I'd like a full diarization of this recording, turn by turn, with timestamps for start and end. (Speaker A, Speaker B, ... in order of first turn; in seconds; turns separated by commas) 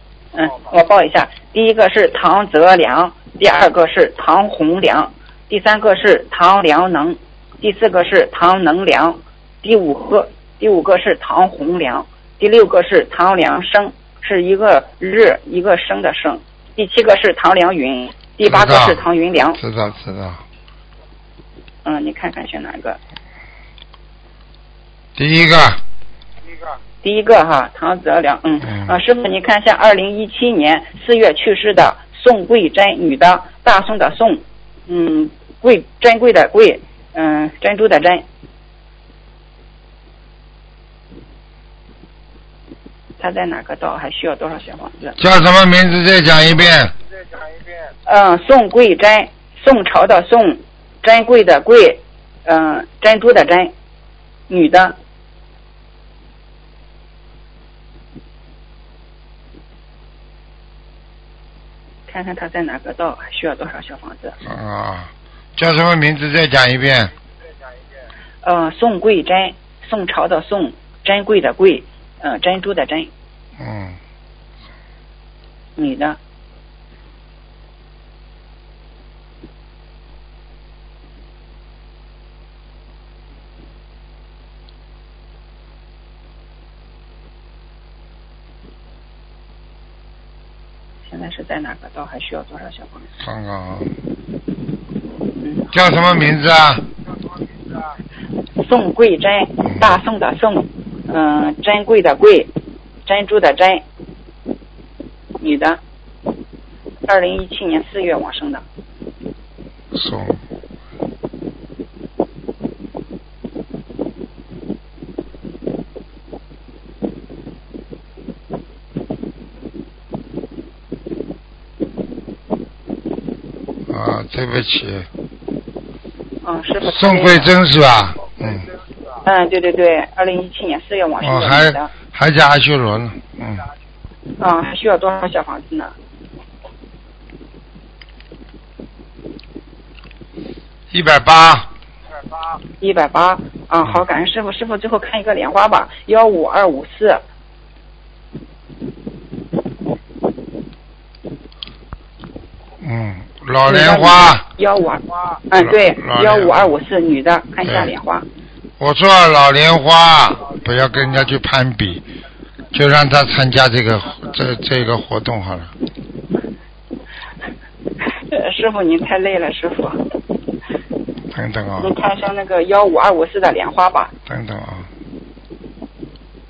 Speaker A: 0.3-19.6, Speaker B: 18.4-19.0, Speaker B: 19.6-20.4, Speaker A: 21.8-23.0, Speaker B: 25.2-25.8, Speaker A: 27.0-38.2, Speaker B: 28.7-29.0, Speaker A: 43.2-45.2, Speaker B: 45.2-46.9, Speaker A: 48.1-53.7, Speaker A: 54.5-55.0, Speaker A: 62.1-64.4, Speaker B: 64.5-67.1, Speaker A: 68.4-73.1, Speaker B: 73.6-74.0, Speaker A: 75.8-76.2, Speaker A: 91.1-93.1, Speaker B: 93.2-93.9, Speaker A: 95.4-95.7, Speaker B: 95.7-96.8, Speaker A: 98.6-102.5, Speaker B: 99.7-100.0, Speaker A: 103.1-103.8, Speaker A: 105.4-105.8, Speaker A: 107.1-108.6, Speaker B: 109.9-110.4, Speaker B: 123.9-125.1, Speaker A: 126.4-127.5, Speaker B: 126.9-128.7, Speaker A: 129.2-131.9, Speaker B: 131.2-133.7, Speaker A: 134.4-135.9, Speaker B: 140.9-141.7, Speaker A: 142.8-147.2, Speaker B: 152.8-154.4, Speaker A: 153.7-158.3, Speaker B: 155.6-156.6, Speaker B: 157.7-157.9, Speaker B: 158.8-162.0, Speaker B: 162.7-165.7, Speaker A: 168.3-170.0, Speaker B: 171.3-172.0, Speaker A: 171.8-174.1, Speaker B: 174.3-174.9